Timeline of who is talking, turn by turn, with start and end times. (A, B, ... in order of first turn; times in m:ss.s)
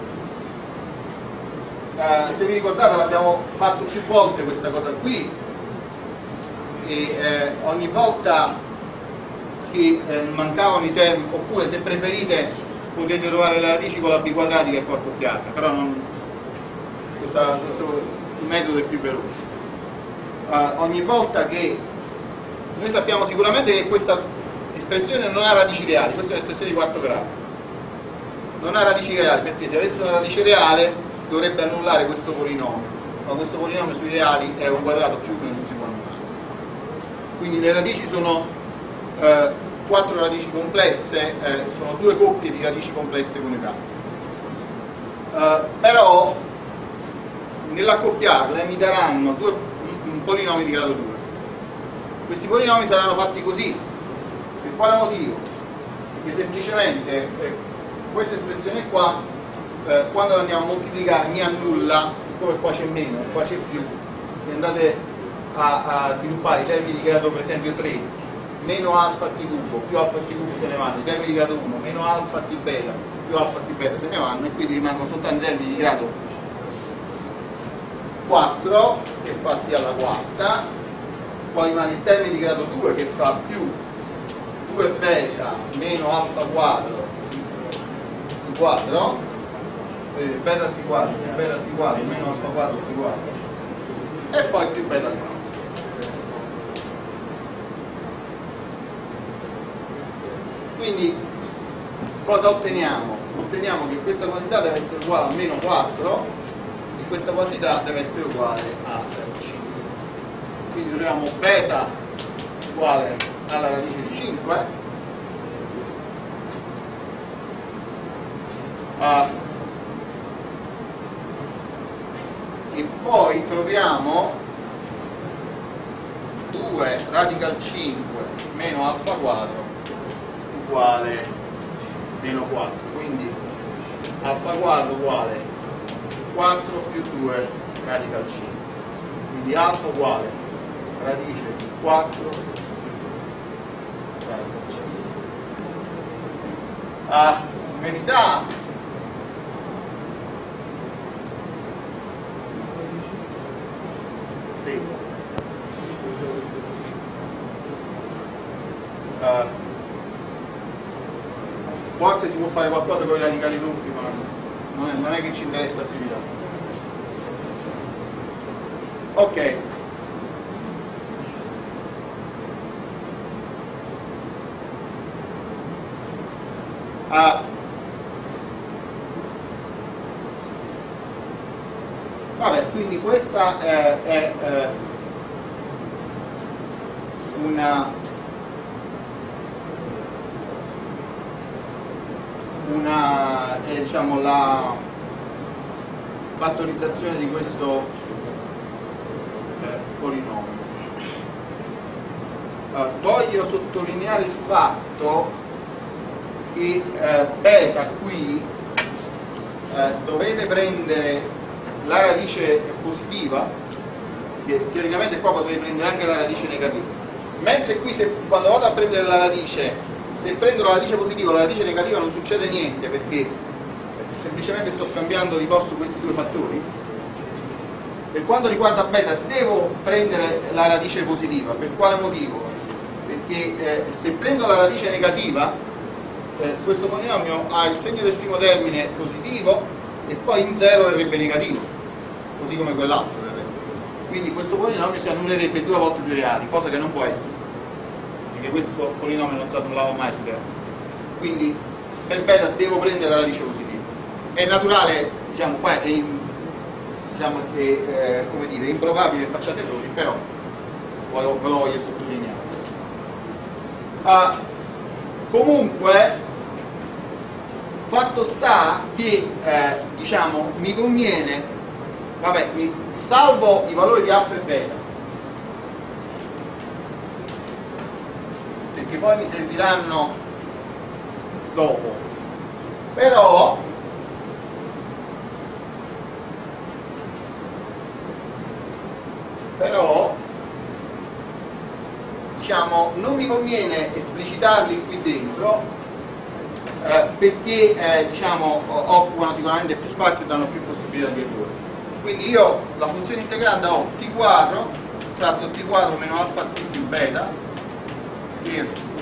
0:02.0-0:05.3 A
0:06.8-0:08.5 A
0:09.7-0:16.0 A
0:17.2-0:19.3 A
0:20.5-0:21.8 A
0:22.8-0:24.2 A
0:24.7-0:27.3 A
0:28.6-0:36.2 A
0:37.4-0:38.5 A
0:39.2-0:43.8 A
0:45.3-0:46.4 A
0:47.7-0:51.2 A
0:52.3-0:53.8 A
0:54.6-0:55.4 A
0:56.2-0:57.6 A
0:58.1-0:59.2 A
0:59.9-1:05.0 A
1:05.5-1:08.1 A
1:08.6-1:16.2 A
1:18.3-1:20.6 A
1:21.5-1:23.8 A
1:24.7-1:27.3 A
1:28.4-1:29.2 A
1:30.1-1:33.4 A
1:34.3-1:35.4 A
1:40.8-1:41.2 A
1:42.3-1:46.3 A
1:47.0-1:49.7 A
1:50.7-1:51.9 A
1:52.7-1:54.7 A
1:59.0-1:59.3 A
2:02.7-2:04.4 A
2:06.5-2:09.7 A
2:10.5-2:11.3 A
2:12.2-2:13.4 A
2:14.2-2:15.4 A
2:16.3-2:18.6 A
2:19.3-2:20.4 A
2:21.0-2:22.4 A
2:24.3-2:24.9 A
2:27.1-2:28.5 A
2:34.6-2:34.9 A
2:39.2-2:39.5 A
2:42.0-2:46.2 A
2:49.2-2:49.6 A
2:57.1-2:57.4 A
3:02.4-3:04.7 A
3:07.3-3:07.9 A
3:12.6-3:14.8 A
3:16.4-3:17.9 A
3:19.6-3:20.6 A
3:22.7-3:25.3 A
3:26.5-3:28.5 A
3:29.7-3:31.3 A
3:31.8-3:33.5 A
3:34.4-3:43.3 A
3:44.0-3:46.7 A
3:48.1-3:55.5 A
3:56.4-4:01.7 A
4:02.4-4:07.3 A
4:08.3-4:10.4 A
4:11.2-4:13.8 A
4:14.4-4:16.3 A
4:17.1-4:20.2 A
4:21.1-4:22.5 A
4:24.0-4:24.4 A
4:25.3-4:26.2 A
4:27.9-4:31.5 A
4:32.2-4:34.8 A
4:38.7-4:40.1 A
4:41.5-4:42.0 A
4:43.0-4:43.6 A
4:49.6-4:50.2 A
4:52.4-4:55.6 A
4:56.8-5:07.3 A
5:08.4-5:08.8 A